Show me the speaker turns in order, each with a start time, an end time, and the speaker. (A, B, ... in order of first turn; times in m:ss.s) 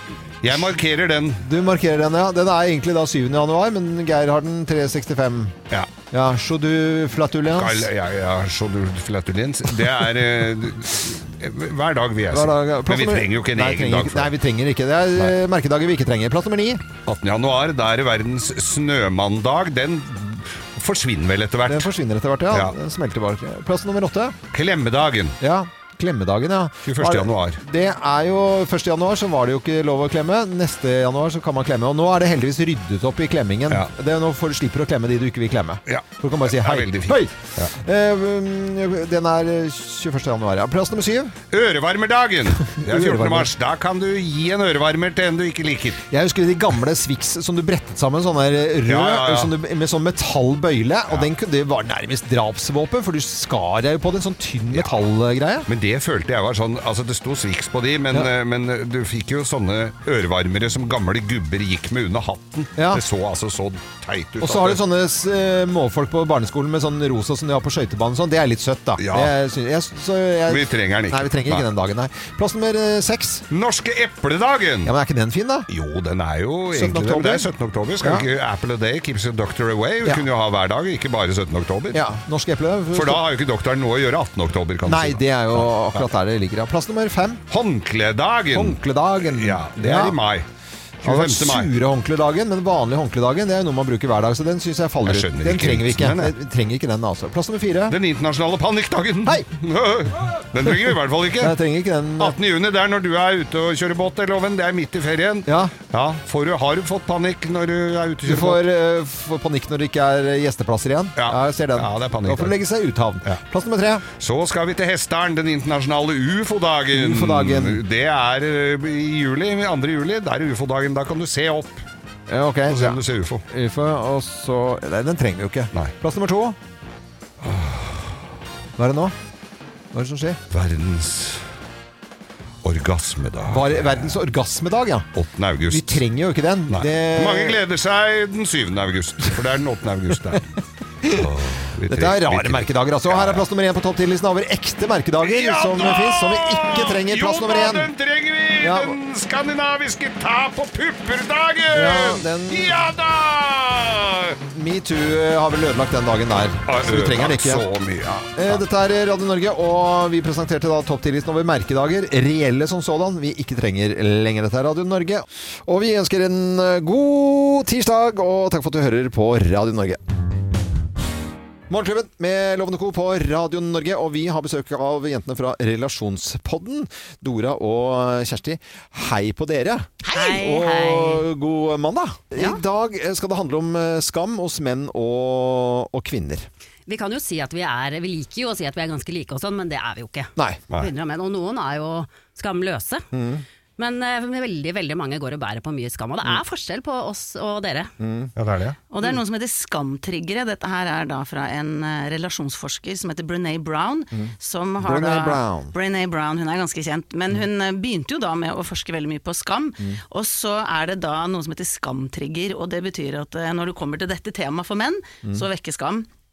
0:00.4-0:01.4 A
0:01.4-0:05.5 B
0:06.1-0:07.9 B
0:07.5-0:14.3 A
0:12.3-0:16.8 B
0:17.0-0:21.9 A
0:21.7-0:24.4 B
0:22.5-0:22.7 A
0:24.5-0:25.4 A
0:25.4-0:41.3 B
0:26.8-0:27.6 A
0:35.8-0:37.7 A
0:41.5-0:46.0 A
0:42.7-0:43.5 B
0:46.1-0:55.7 B
0:48.8-0:49.5 A
0:55.7-1:04.8 A
1:02.8-1:03.0 B
1:04.4-1:13.4 B
1:09.0-1:09.3 A
1:10.5-1:11.6 A
1:13.5-1:14.9 A
1:14.8-1:15.7 B
1:15.7-1:22.0 A
1:16.7-1:17.5 B
1:21.9-1:23.2 B
1:22.9-1:26.0 A
1:24.8-1:27.4 B
1:27.5-1:30.5 A
1:28.5-1:30.2 B
1:31.0-1:31.7 A
1:31.0-1:38.0 B
1:35.0-1:36.3 A
1:37.9-1:41.6 A
1:41.4-1:42.4 B
1:42.2-1:48.7 A
1:45.5-1:45.7 B
1:48.2-1:54.0 B
1:51.2-1:52.6 A
1:54.1-2:01.8 A
1:56.9-1:57.8 B
2:02.3-2:06.6 B
2:02.7-2:03.4 A
2:07.4-2:08.1 A
2:08.8-2:09.1 B
2:09.9-2:10.4 B
2:10.5-2:11.5 A
2:12.6-2:14.2 A
2:13.5-2:15.1 B
2:15.1-2:16.0 A
2:15.7-2:17.6 B
2:16.7-2:20.5 A
2:21.0-2:21.3 B
2:21.1-2:23.4 A
2:21.9-2:27.9 B
2:25.2-2:34.4 A
2:28.6-2:28.9 B
2:31.7-2:32.8 B
2:34.5-2:37.6 B
2:36.6-2:38.6 A
2:38.4-2:50.0 B
2:51.7-3:06.5 B
3:00.0-3:01.2 C
3:06.9-3:13.0 C
3:13.1-3:13.4 B
3:13.8-3:17.9 C
3:18.0-3:18.3 B
3:18.4-3:18.8 A
3:18.9-3:36.1 D
3:24.1-3:25.7 B